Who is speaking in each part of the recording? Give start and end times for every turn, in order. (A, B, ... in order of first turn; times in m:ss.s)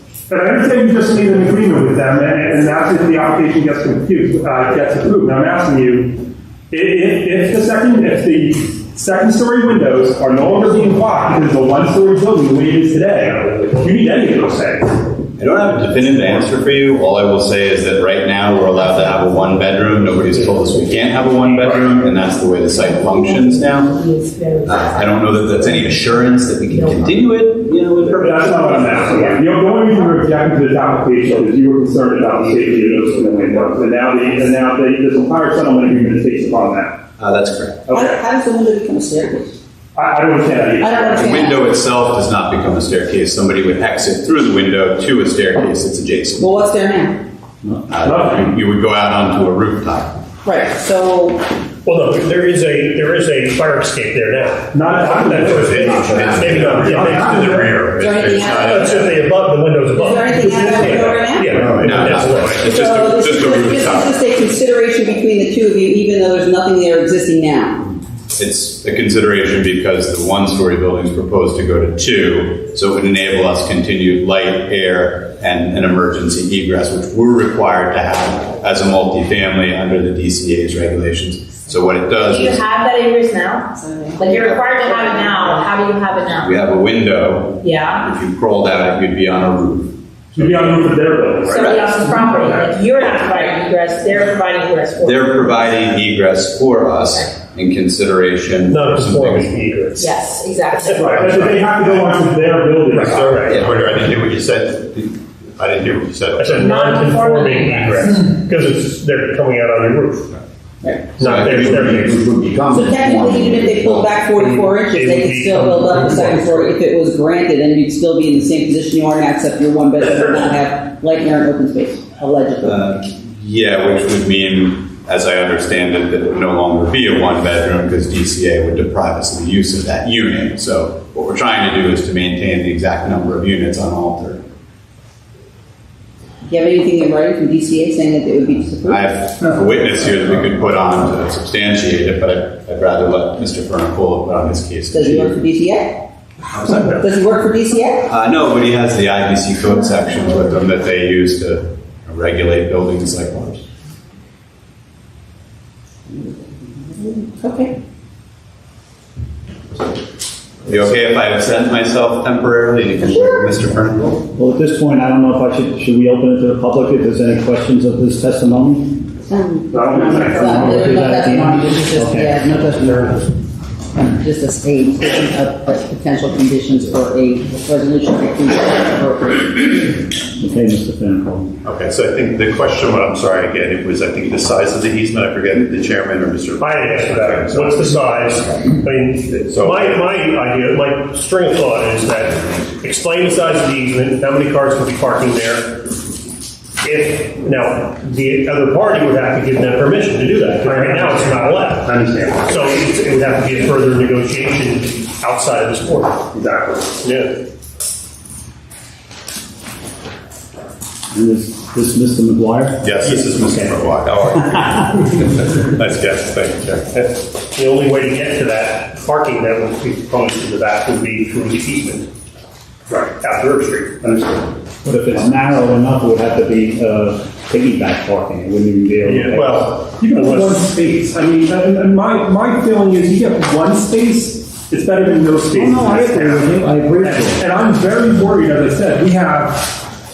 0:00.3-0:15.0 A
0:13.2-0:14.2 B
0:15.4-0:23.9 C
0:20.0-0:20.9 B
0:21.6-0:21.9 A
0:22.7-0:27.4 D
0:24.6-0:29.4 C
0:28.0-0:37.0 A
0:30.1-0:30.4 D
0:37.2-0:37.9 C
0:37.9-0:38.2 A
0:37.9-0:39.6 E
0:39.9-0:41.4 A
0:40.8-0:41.6 E
0:41.2-0:46.6 C
0:46.4-0:47.2 E
0:47.9-0:50.2 C
0:48.0-0:48.5 A
0:50.4-0:51.5 E
0:51.8-0:57.6 B
0:54.7-0:57.8 A
0:55.0-0:59.1 F
0:55.8-0:56.4 G
0:56.1-0:56.6 C
0:58.0-0:59.0 E
0:58.4-1:02.7 B
0:59.9-1:01.6 E
1:00.4-1:00.8 A
1:01.5-1:04.1 C
1:01.5-1:02.5 F
1:02.6-1:07.9 E
1:08.4-1:22.6 C
1:22.2-1:26.5 D
1:23.8-1:25.6 E
1:24.3-1:25.0 C
1:26.4-1:29.9 C
1:27.6-1:28.1 D
1:30.3-1:32.7 A
1:31.4-1:35.7 D
1:31.5-1:31.9 C
1:35.0-1:39.7 C
1:38.7-1:40.2 B
1:40.0-1:41.5 D
1:40.7-1:41.5 B
1:41.0-1:43.2 A
1:41.0-1:42.2 F
1:42.9-1:46.9 F
1:42.9-1:43.6 B
1:46.4-1:50.4 B
1:46.6-1:48.2 D
1:50.8-1:51.1 E
1:51.2-1:52.2 B
1:51.2-1:54.1 C
1:52.7-2:02.8 E
1:54.5-1:56.7 B
2:02.6-2:14.4 C
2:16.4-2:19.0 E
2:18.8-2:25.4 C
2:24.9-2:26.0 E
2:26.5-2:26.9 C
2:26.7-2:28.1 E
2:28.0-2:33.6 C
2:37.0-2:37.7 E
2:40.6-2:44.2 C
2:44.3-2:49.1 G
2:49.2-2:53.1 E
2:49.7-2:50.9 A
2:50.3-2:53.3 G
2:54.0-3:00.0 E
3:00.2-3:01.6 G
3:01.6-3:08.3 F
3:06.6-3:15.9 B
3:09.5-3:10.0 F
3:16.8-3:26.3 B
3:20.6-3:22.4 A
3:26.3-3:26.9 A
3:27.0-3:27.4 B
3:31.1-3:33.7 G
3:32.8-3:36.9 F
3:34.4-3:34.8 G
3:36.9-3:42.1 B
3:42.9-3:43.1 A
3:43.1-3:44.5 B
3:44.8-3:49.7 G
3:49.0-3:50.6 B
3:49.7-3:59.8 A
3:55.5-3:57.4 G